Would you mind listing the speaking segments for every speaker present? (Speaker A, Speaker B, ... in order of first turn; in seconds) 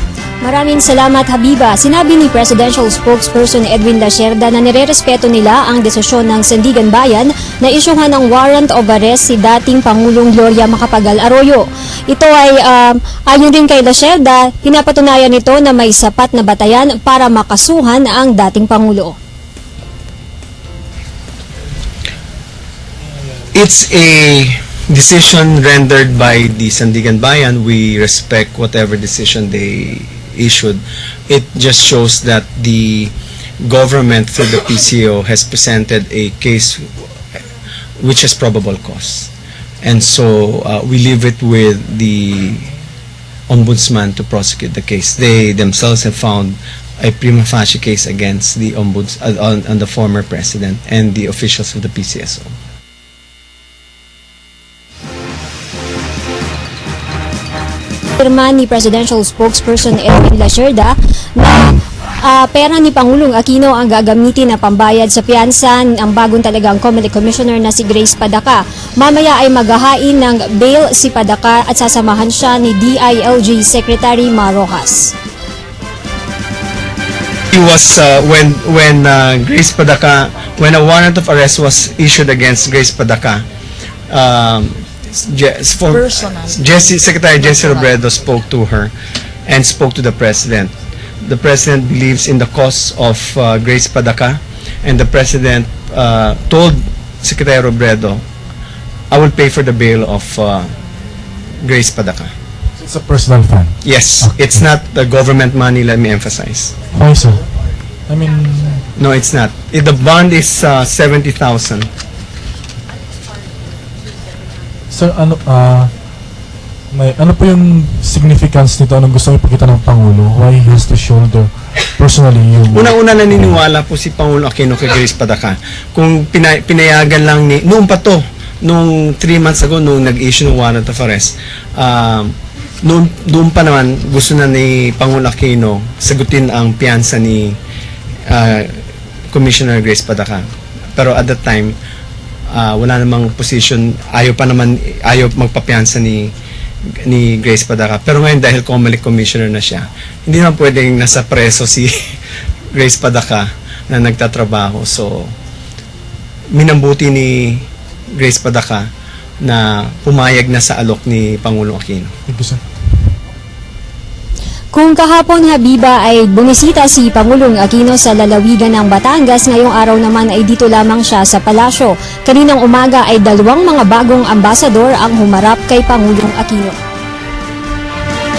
Speaker A: 0.4-19.2, 58.2-75.1, 164.7-176.8
Speaker B: 23.5-36.9, 38.0-39.3, 39.8-42.7, 43.5-52.5, 77.5-83.5, 84.1-88.9, 89.5-98.2, 99.1-100.7, 101.6-102.3, 103.8-106.7, 109.0-111.9, 122.7-137.6, 138.3-138.8, 139.3-140.4, 140.9-141.7, 142.5-146.3, 147.0-152.2, 152.7-155.3, 156.5-158.8, 159.4-162.1
Speaker C: 102.8-104.6, 106.9-107.5, 108.1-108.8, 114.9-115.9, 116.9-123.5, 162.3-162.6